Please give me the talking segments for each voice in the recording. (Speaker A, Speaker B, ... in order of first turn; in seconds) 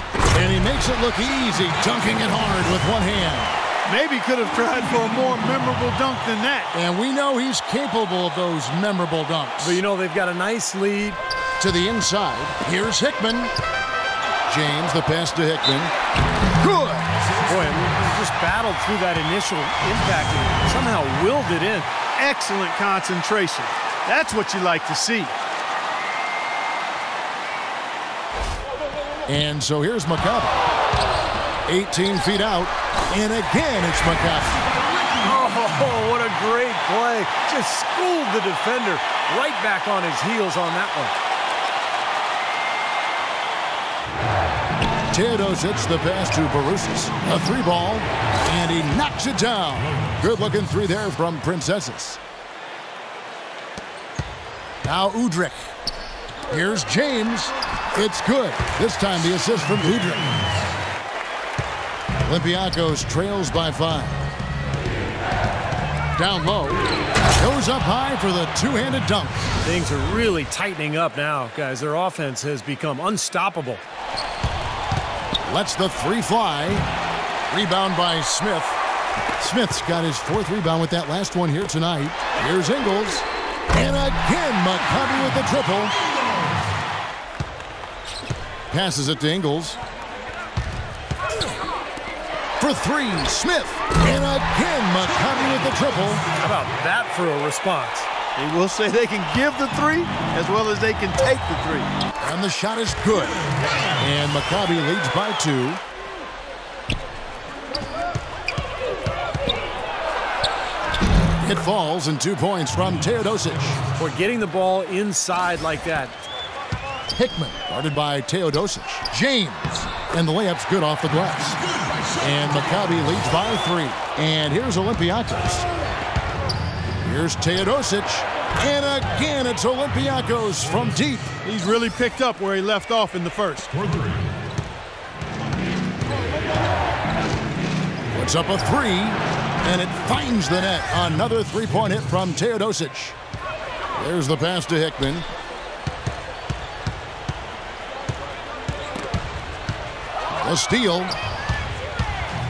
Speaker A: 0.3-3.6, 6.7-9.8, 11.6-13.5, 14.5-15.9, 16.6-17.1, 29.2-30.6, 31.6-34.6, 45.1-52.2, 54.8-55.7, 56.5-60.6, 62.2-64.2, 66.1-69.4, 75.4-76.9, 77.5-78.8, 79.4-85.9, 88.7-89.8, 92.6-96.2, 102.2-103.4, 104.0-105.8, 111.4-113.8, 117.1-121.6, 122.2-125.7, 127.0-131.4, 138.1-143.2, 143.9-145.2, 150.3-151.1
Speaker B: 3.9-6.7, 22.1-25.3, 98.3-101.9, 131.4-133.8
Speaker C: 9.6-11.2, 17.4-21.9, 35.0-41.1, 69.6-73.8, 96.4-98.1, 114.0-116.1